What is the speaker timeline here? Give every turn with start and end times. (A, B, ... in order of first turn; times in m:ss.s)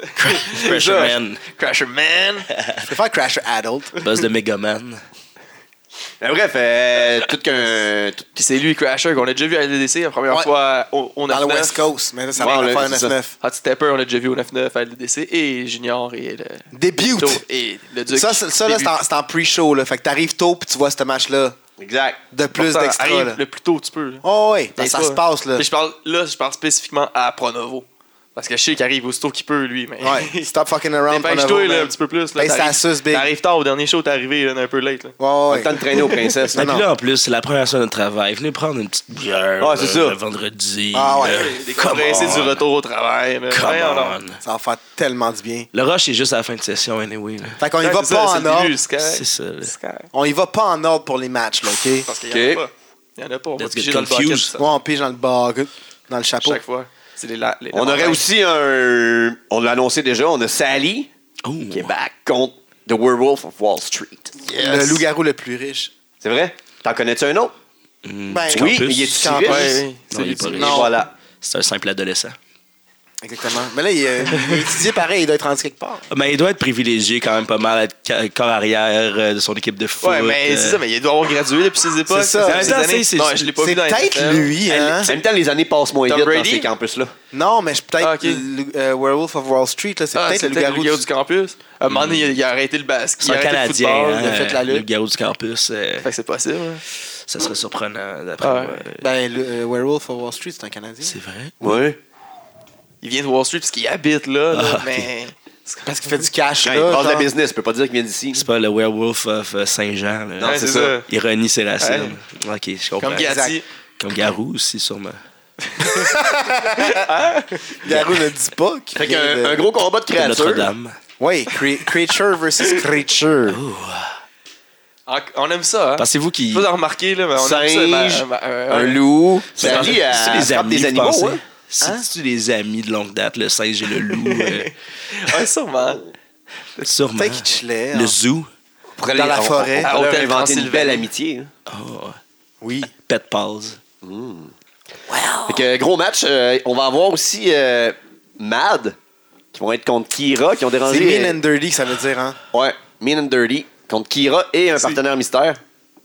0:00.2-0:01.4 A
0:00.2-0:02.5 B
0:00.7-0:01.1 C
0:02.6-0:02.8 A
0:02.8-0:03.9 D
0:04.0-0:05.0 A
0:06.2-0:08.2 C
0:08.3-0:11.8 B
0:11.3-0:13.3 D
0:12.4-0:13.1 C
0:13.4-0:19.0 B
0:16.7-0:17.4 D
0:18.1-0:21.6 D
0:21.8-0:22.2 C
0:22.3-0:23.4 D
0:22.5-0:24.2 B
0:24.2-0:25.6 D
0:24.8-0:30.5 B
0:30.0-0:33.3 D
0:31.1-0:35.1 B
0:35.2-0:35.8 D
0:35.5-0:36.7 C
0:35.9-0:36.2 B
0:36.5-0:42.6 A
0:36.5-0:36.8 D
0:39.6-0:40.2 C
0:40.9-0:41.6 D
0:41.2-0:44.2 B
0:43.5-0:44.4 A
0:44.4-0:45.7 D
0:45.7-0:47.6 A
0:47.6-0:48.8 D
0:47.8-0:50.1 B
0:49.0-0:49.7 A
0:50.1-0:52.1 D
0:52.0-0:54.6 B
0:52.3-0:52.6 C
0:53.6-0:54.5 A
0:54.6-0:56.6 D
0:56.4-0:58.2 B
0:57.7-1:01.1 C
1:01.4-1:01.9 A
1:01.7-1:04.3 C
1:04.4-1:05.0 B
1:04.6-1:05.9 D
1:06.2-1:07.5 C
1:08.0-1:09.4 A
1:08.3-1:09.8 D
1:08.5-1:09.8 C
1:09.4-1:10.8 B
1:10.1-1:12.4 A
1:10.6-1:10.9 D
1:10.6-1:11.1 C
1:13.2-1:16.1 D
1:16.1-1:20.8 A
1:20.0-1:25.0 B
1:22.1-1:22.8 D
1:22.4-1:23.5 A
1:23.6-1:25.1 D
1:24.8-1:27.1 C
1:26.1-1:26.7 B
1:27.3-1:31.0 D
1:28.0-1:28.4 B
1:30.1-1:34.3 B
1:31.9-1:32.3 A
1:33.2-1:36.1 A
1:34.2-1:34.8 D
1:36.0-1:36.8 B
1:36.9-1:39.1 A
1:38.4-1:38.8 B
1:39.0-1:41.2 D
1:41.0-1:41.5 A
1:41.6-1:42.0 C
1:43.0-1:45.8 B
1:44.5-1:45.1 A
1:45.8-1:47.3 D
1:46.6-1:48.4 C
1:48.3-1:53.4 A
1:50.4-1:51.0 C
1:50.4-1:51.1 B
1:51.8-1:52.2 B
1:53.0-1:53.6 B
1:53.2-1:53.6 D
1:54.0-1:55.2 A
1:55.6-1:57.8 B
1:55.8-1:57.0 D
1:57.7-1:59.6 D
1:59.0-2:00.7 C
2:00.1-2:01.0 A
2:01.2-2:03.5 D
2:03.5-2:04.1 A
2:05.1-2:09.0 B
2:06.0-2:06.6 A
2:07.4-2:11.4 C
2:09.5-2:10.0 B
2:09.6-2:14.7 A
2:11.8-2:12.0 D
2:14.0-2:16.0 B
2:16.8-2:18.5 A
2:17.1-2:18.2 D
2:19.0-2:21.5 C
2:19.1-2:19.9 D
2:19.8-2:21.1 B
2:21.7-2:22.2 A
2:22.6-2:22.9 D
2:23.0-2:23.8 A
2:24.0-2:24.5 C
2:25.1-2:25.6 D
2:25.5-2:29.0 C
2:29.5-2:31.4 C
2:30.8-2:32.4 D
2:32.5-2:35.6 C